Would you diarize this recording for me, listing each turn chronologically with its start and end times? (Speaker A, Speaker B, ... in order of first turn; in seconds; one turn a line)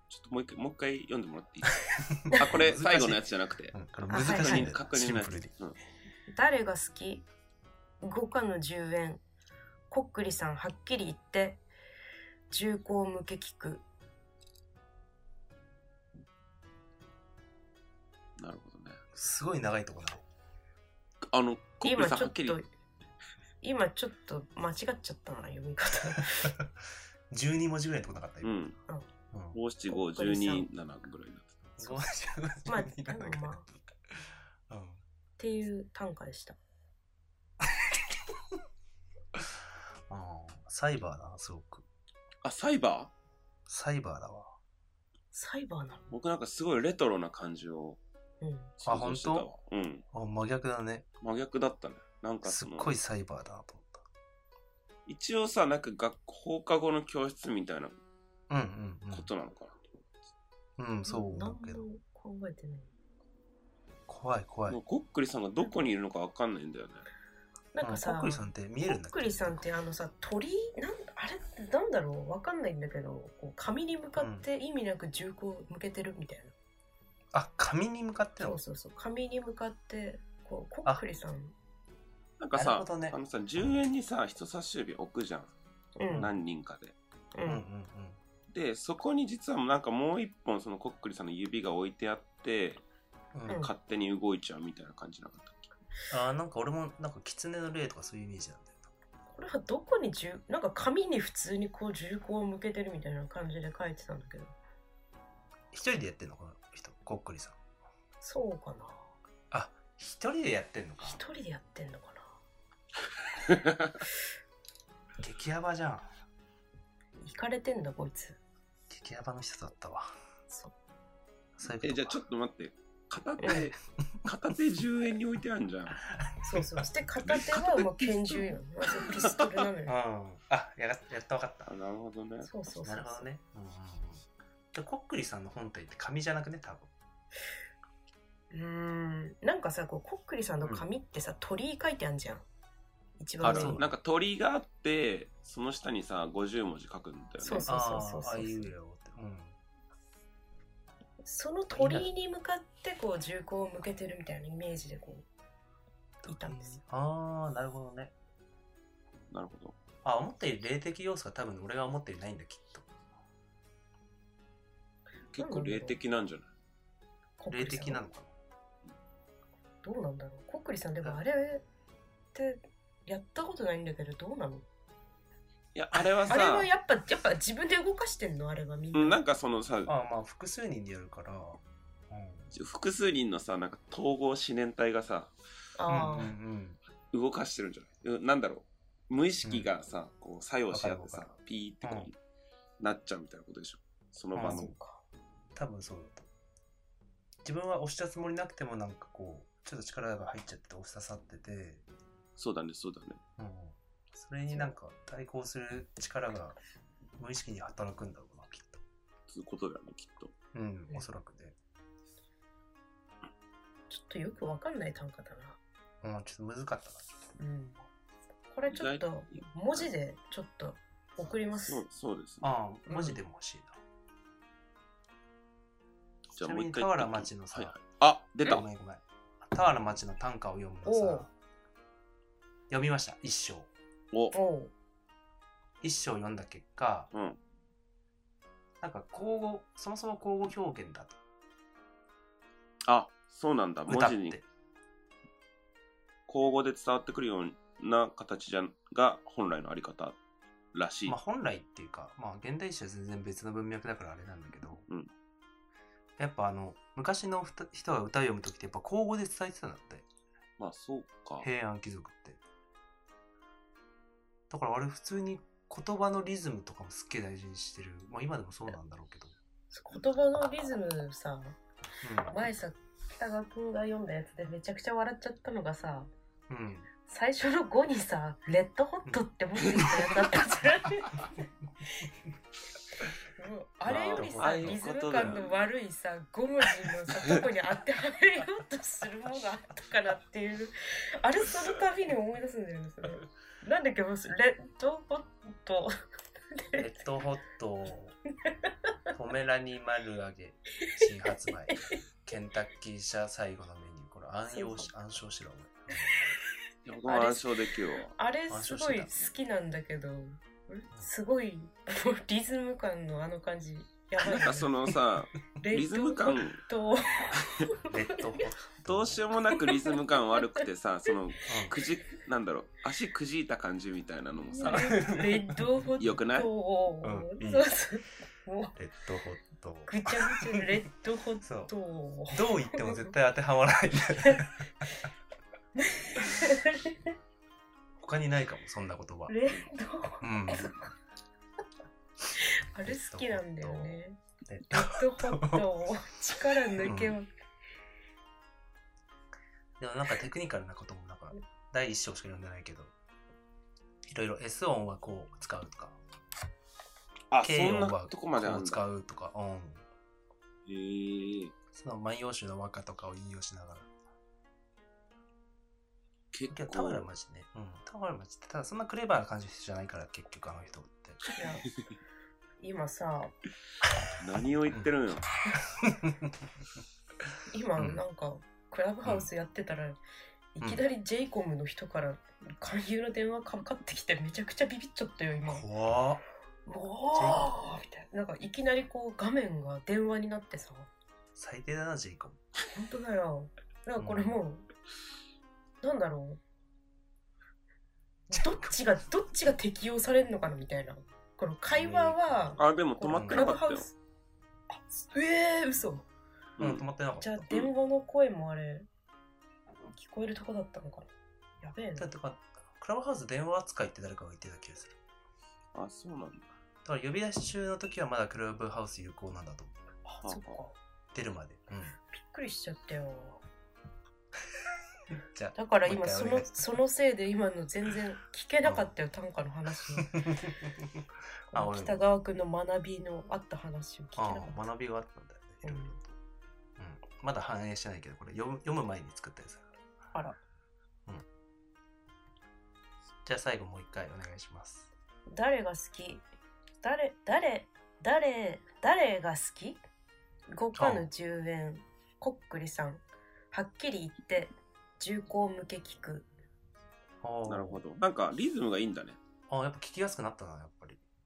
Speaker A: 0.1-5.8
Speaker B: 2.1-5.6
Speaker C: 4.1-4.7
Speaker C: 6.3-7.3
Speaker C: 8.0-9.2
Speaker C: 9.9-11.6
Speaker C: 12.5-13.8
Speaker A: 18.4-19.0
Speaker B: 19.1-20.2
Speaker A: 21.3-22.6
Speaker C: 21.8-22.7
Speaker C: 23.6-26.5
Speaker B: 26.1-26.7
Speaker B: 27.3-28.6
Speaker A: 28.4-28.8
Speaker B: 29.3-29.6
Speaker A: 29.5-31.6
Speaker C: 29.9-30.7
Speaker B: 31.8-35.0
Speaker C: 32.6-33.6
Speaker C: 35.4-36.6
Speaker B: 40.1-41.8
Speaker A: 42.4-43.1
Speaker B: 43.7-44.5
Speaker C: 45.3-46.0
Speaker A: 46.1-48.0
Speaker C: 48.4-48.7
Speaker A: 48.8-50.0
Speaker B: 48.8-49.5
Speaker B: 50.1-51.0
Speaker A: 51.2-52.9
Speaker B: 52.4-54.0
Speaker A: 55.0-58.0
Speaker B: 58.5-59.3
Speaker A: 59.1-59.8
Speaker B: 60.8-61.8
Speaker C: 61.0-62.9
Speaker B: 64.1-64.8
Speaker A: 64.7-67.0
Speaker C: 67.7-76.5
Speaker B: 67.8-69.6
Speaker B: 74.2-74.5
Speaker B: 77.3-78.6
Speaker C: 78.4-81.5
Speaker A: 82.4-85.5
Speaker B: 82.5-83.2
Speaker C: 86.0-86.3
Speaker A: 86.1-87.0
Speaker C: 87.3-87.6
Speaker B: 87.4-88.2
Speaker A: 88.5-92.8
Speaker B: 93.3-93.6
Speaker A: 93.5-95.7
Speaker B: 96.1-98.9
Speaker C: 99.3-104.5
Speaker B: 105.7-107.6
Speaker C: 108.2-109.0
Speaker B: 109.5-111.2
Speaker C: 111.0-112.3
Speaker A: 113.4-114.0
Speaker B: 115.2-116.1
Speaker C: 117.2-118.4
Speaker B: 118.9-120.1
Speaker B: 121.6-122.2
Speaker A: 121.8-126.0
Speaker C: 123.4-123.7
Speaker B: 126.1-126.9
Speaker C: 126.4-130.0
Speaker B: 127.5-128.4
Speaker B: 129.8-131.7
Speaker A: 131.7-132.5
Speaker C: 132.4-133.2
Speaker B: 132.8-136.9
Speaker C: 138.5-142.4
Speaker C: 143.2-143.8
Speaker A: 143.4-147.7
Speaker B: 143.4-143.9
Speaker C: 147.4-148.7
Speaker B: 147.6-149.6
Speaker C: 151.2-155.2
Speaker B: 151.7-152.1
Speaker B: 156.2-158.1
Speaker C: 156.3-156.8
Speaker A: 159.3-159.8
Speaker B: 160.0-162.9
Speaker A: 165.3-166.5
Speaker C: 165.4-166.0
Speaker C: 167.4-168.0
Speaker B: 167.5-168.3
Speaker C: 169.8-171.6
Speaker C: 172.3-174.6
Speaker A: 175.7-176.7
Speaker C: 176.3-179.2
Speaker A: 178.9-179.9
Speaker B: 179.9-182.5
Speaker A: 182.5-185.3
Speaker C: 185.8-186.3
Speaker B: 185.9-186.8
Speaker A: 187.1-192.2
Speaker B: 189.4-189.7
Speaker B: 190.7-191.3
Speaker B: 191.8-192.1
Speaker A: 192.8-194.7
Speaker B: 194.3-194.7
Speaker C: 194.4-195.0
Speaker B: 195.6-196.2
Speaker B: 197.4-201.8
Speaker A: 202.4-203.2
Speaker B: 203.4-206.6
Speaker B: 207.2-208.8
Speaker A: 209.3-210.3
Speaker B: 210.5-211.6
Speaker C: 213.9-215.6
Speaker B: 216.0-217.2
Speaker C: 217.4-217.8
Speaker C: 218.5-221.8
Speaker A: 218.7-219.9
Speaker A: 221.6-222.5
Speaker B: 222.4-223.8
Speaker C: 222.9-223.2
Speaker A: 226.3-228.6
Speaker B: 226.4-227.8
Speaker B: 228.4-231.3
Speaker C: 230.8-231.2
Speaker B: 232.7-233.7
Speaker A: 234.1-234.4
Speaker C: 234.3-234.7
Speaker B: 235.8-237.1
Speaker A: 237.1-237.4
Speaker B: 238.8-241.2
Speaker A: 242.8-244.4
Speaker B: 243.9-244.4
Speaker A: 246.3-250.2
Speaker A: 250.7-251.2
Speaker B: 251.1-254.8
Speaker B: 256.2-260.1
Speaker A: 260.6-261.5
Speaker B: 261.4-262.4
Speaker B: 264.5-269.4
Speaker C: 269.7-271.6
Speaker B: 272.0-272.4
Speaker C: 272.3-276.1
Speaker B: 276.5-276.9
Speaker C: 277.1-281.3
Speaker C: 283.4-295.9
Speaker B: 283.9-285.4
Speaker A: 283.9-285.6
Speaker C: 296.5-296.9
Speaker B: 296.8-298.2
Speaker B: 299.1-306.1
Speaker C: 300.8-301.1
Speaker C: 301.7-301.9
Speaker C: 304.5-304.9
Speaker A: 306.8-308.1
Speaker C: 307.0-314.7
Speaker B: 308.5-309.3
Speaker A: 314.2-316.6
Speaker C: 315.6-318.5
Speaker A: 317.3-317.6
Speaker B: 317.9-319.3
Speaker A: 318.8-325.1
Speaker C: 319.5-320.0
Speaker B: 321.4-321.7
Speaker C: 324.5-328.7
Speaker B: 324.6-325.7
Speaker A: 326.0-326.5
Speaker B: 327.0-327.7
Speaker B: 328.8-330.8
Speaker C: 329.9-333.1
Speaker B: 331.4-331.7
Speaker B: 332.3-334.7
Speaker C: 335.8-337.1
Speaker B: 338.0-339.3
Speaker C: 339.3-340.9
Speaker B: 340.2-340.7
Speaker C: 342.4-344.2
Speaker B: 342.8-345.6
Speaker C: 344.7-347.3
Speaker B: 346.8-347.2
Speaker B: 349.8-352.9
Speaker B: 354.1-356.0
Speaker A: 357.3-358.8
Speaker B: 357.4-359.8
Speaker A: 360.6-361.5
Speaker B: 361.7-363.9
Speaker A: 366.3-367.1
Speaker B: 366.5-371.2
Speaker C: 371.3-371.7
Speaker C: 372.6-373.3
Speaker A: 374.2-375.3
Speaker B: 375.8-376.3
Speaker C: 377.5-380.0
Speaker B: 377.8-378.0
Speaker C: 380.5-385.7
Speaker B: 385.4-386.2
Speaker C: 386.6-390.9
Speaker B: 387.1-387.5
Speaker B: 391.4-392.4
Speaker C: 392.7-394.6
Speaker B: 394.0-394.4
Speaker C: 395.8-396.4
Speaker C: 398.3-403.9
Speaker B: 398.3-398.7
Speaker B: 401.7-402.2
Speaker A: 402.6-403.9
Speaker B: 403.1-403.5
Speaker C: 404.7-406.1
Speaker A: 406.6-406.9
Speaker B: 406.6-407.6
Speaker C: 407.2-408.9
Speaker C: 409.9-411.1
Speaker C: 411.6-412.1
Speaker B: 412.0-415.0
Speaker A: 415.7-416.5
Speaker B: 416.8-419.8
Speaker C: 420.0-420.7
Speaker A: 420.2-420.6
Speaker B: 421.1-422.0
Speaker C: 422.1-423.4
Speaker B: 425.3-426.6
Speaker C: 425.6-430.2
Speaker B: 430.0-432.0
Speaker C: 431.5-434.6
Speaker B: 434.1-436.1
Speaker C: 435.6-435.9
Speaker B: 436.8-439.8
Speaker C: 440.1-440.4
Speaker B: 443.2-444.9
Speaker C: 445.3-446.2
Speaker C: 446.8-449.8
Speaker C: 450.5-456.3
Speaker B: 450.7-451.1
Speaker B: 457.2-457.8
Speaker A: 457.4-459.2
Speaker B: 459.5-461.0